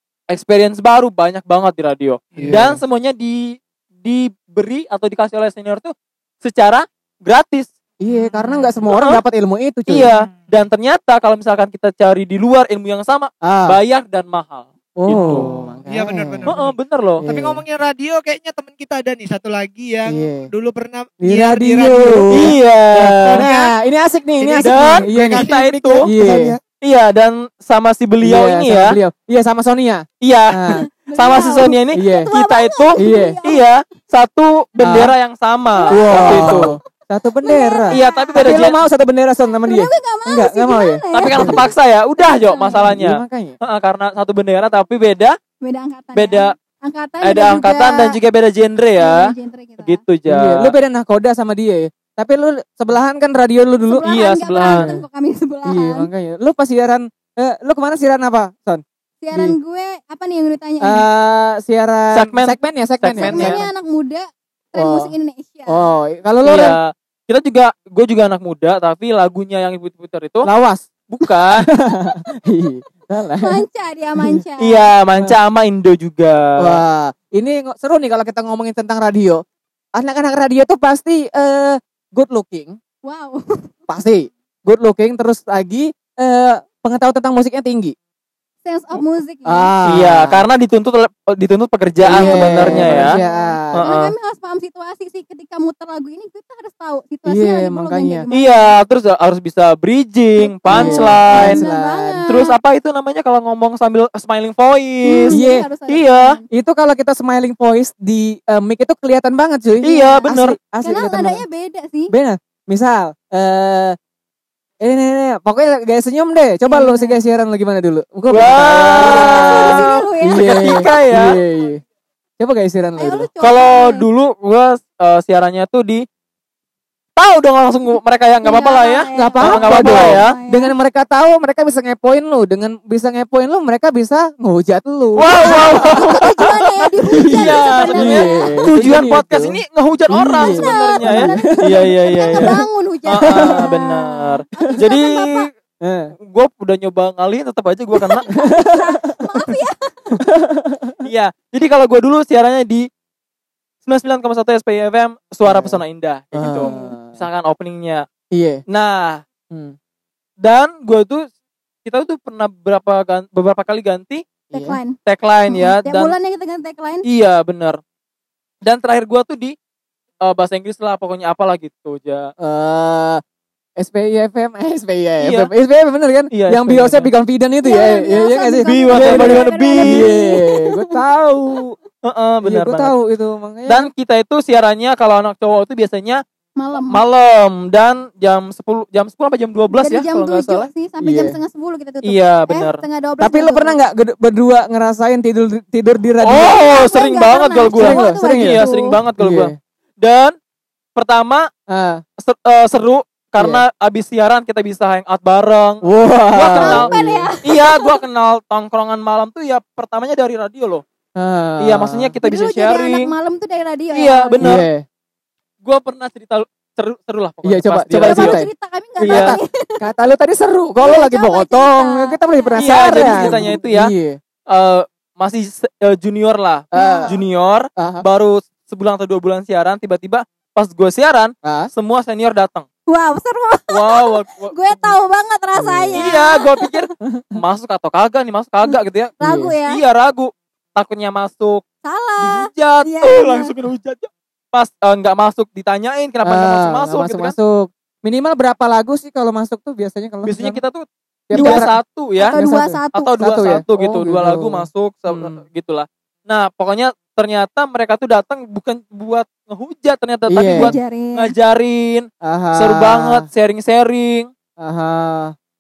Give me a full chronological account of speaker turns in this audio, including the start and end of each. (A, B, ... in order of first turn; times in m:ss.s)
0:00.3-0:07.7 A
0:02.3-0:02.8 B
0:02.4-0:02.8 C
0:08.0-0:10.1 C
0:08.9-0:09.2 A
0:09.9-0:15.5 A
0:13.4-0:13.8 C
0:15.0-0:16.5 C
0:15.3-0:16.7 B
0:16.5-0:17.2 A
0:17.2-0:17.6 C
0:17.2-0:23.7 B
0:20.1-0:20.5 C
0:21.2-0:25.5 C
0:22.3-0:23.5 A
0:24.4-0:26.6 B
0:24.6-0:26.1 A
0:26.0-0:26.6 C
0:26.8-0:29.0 A
0:28.2-0:30.9 C
0:30.2-0:36.8 A
0:30.9-0:33.9 D
0:31.9-0:32.3 C
0:33.0-0:33.4 C
0:34.8-0:35.1 C
0:35.7-0:36.8 D
0:35.9-0:41.6 C
0:37.4-0:38.6 D
0:37.9-0:38.8 A
0:39.5-0:42.9 D
0:41.1-0:45.4 A
0:42.8-0:43.6 C
0:45.6-0:48.2 D
0:46.1-0:46.6 A
0:47.2-0:50.8 A
0:49.0-0:50.0 D
0:50.3-0:55.0 C
0:53.9-0:56.1 D
0:54.0-0:55.0 A
0:55.6-0:59.6 C
0:59.2-1:01.1 D
1:00.8-1:03.6 C
1:02.1-1:03.7 A
1:03.1-1:05.9 D
1:04.8-1:05.1 C
1:05.7-1:06.8 C
1:06.4-1:10.5 A
1:10.4-1:13.6 C
1:11.1-1:11.7 A
1:12.0-1:12.3 D
1:13.4-1:14.9 D
1:14.2-1:14.4 C
1:14.6-1:16.8 A
1:16.6-1:19.4 C
1:20.0-1:22.8 C
1:23.0-1:23.7 D
1:23.9-1:27.9 C
1:28.6-1:29.7 D
1:28.9-1:30.4 C
1:29.8-1:33.2 A
1:32.0-1:33.9 C
1:32.1-1:38.8 D
1:33.7-1:34.2 A
1:37.3-1:38.3 C
1:38.3-1:41.6 A
1:40.4-1:42.6 D
1:40.7-1:42.2 C
1:42.3-1:46.4 A
1:45.1-1:46.4 D
1:45.3-1:45.7 C
1:46.5-1:51.4 C
1:49.8-1:50.6 A
1:49.9-1:50.2 D
1:50.8-1:52.1 D
1:52.1-1:54.0 C
1:54.8-2:01.8 C
1:56.7-1:57.2 D
1:58.3-2:01.4 A
1:58.7-2:01.0 D
2:02.4-2:03.3 C
2:03.0-2:04.0 D
2:03.4-2:06.0 A
2:07.2-2:10.4 A
2:08.4-2:10.7 D
2:09.2-2:16.5 C
2:15.2-2:25.5 A
2:15.2-2:19.0 D
2:17.0-2:22.6 C
2:20.2-2:25.5 D
2:23.2-2:23.7 C
2:25.8-2:26.1 C
2:26.3-2:28.3 A
2:27.9-2:30.2 D
2:28.3-2:29.2 C
2:30.2-2:31.0 C
2:31.0-2:32.9 A
2:33.8-2:38.1 A
2:35.4-2:35.8 C
2:36.3-2:37.2 C
2:36.5-2:37.0 D
2:38.3-2:38.6 C
2:38.7-2:39.2 A
2:39.5-2:39.8 C
2:40.4-2:41.3 A
2:41.8-2:44.2 A
2:44.5-2:44.8 C
2:44.5-2:47.0 D
2:45.0-2:46.2 A
2:47.0-2:47.8 A
2:48.6-2:49.6 A
2:50.2-2:52.3 A
2:52.4-2:53.2 C
2:53.8-3:01.8 C
2:55.2-2:55.5 A
2:56.3-2:57.1 A
2:57.6-3:00.8 D
2:58.7-3:00.1 A
3:02.0-3:02.9 A
3:02.4-3:03.9 C
3:03.7-3:06.2 A
3:06.6-3:07.0 D
3:06.8-3:10.7 A
3:09.7-3:13.8 D
3:11.0-3:11.4 C
3:12.0-3:12.8 A
3:13.2-3:16.5 C
3:16.2-3:20.3 A
3:16.3-3:19.0 D
3:17.7-3:18.7 C
3:19.2-3:19.6 C
3:21.0-3:21.5 A
3:21.7-3:22.0 C
3:22.2-3:30.8 A
3:25.8-3:27.3 C
3:26.4-3:28.0 D
3:31.2-3:32.2 C
3:31.6-3:33.1 A
3:32.2-3:34.5 D
3:33.9-3:34.7 A
3:34.4-3:34.8 C
3:35.6-3:38.4 A
3:37.4-3:38.5 C
3:37.9-3:39.9 D
3:39.0-3:39.4 A
3:39.0-3:44.2 C
3:40.8-3:43.6 D
3:42.6-3:43.9 A
3:44.5-3:52.7 A
3:46.7-3:47.2 C
3:46.7-3:47.2 D
3:47.8-3:48.0 C
3:51.4-3:51.7 C
3:52.9-3:56.9 D
3:53.7-3:54.9 A
3:55.6-3:56.1 C
3:55.9-4:01.6 A
3:57.0-3:57.4 C
3:59.2-3:59.6 C
3:59.2-3:59.8 D
4:01.8-4:03.5 D
4:02.2-4:07.4 A
4:06.2-4:10.6 C
4:10.2-4:12.4 A
4:11.3-4:11.7 C
4:11.3-4:11.7 D
4:12.2-4:13.2 D
4:12.3-4:15.4 C
4:12.9-4:24.3 A
4:20.3-4:20.7 C
4:20.5-4:21.4 D
4:22.2-4:23.3 C
4:24.6-4:25.4 C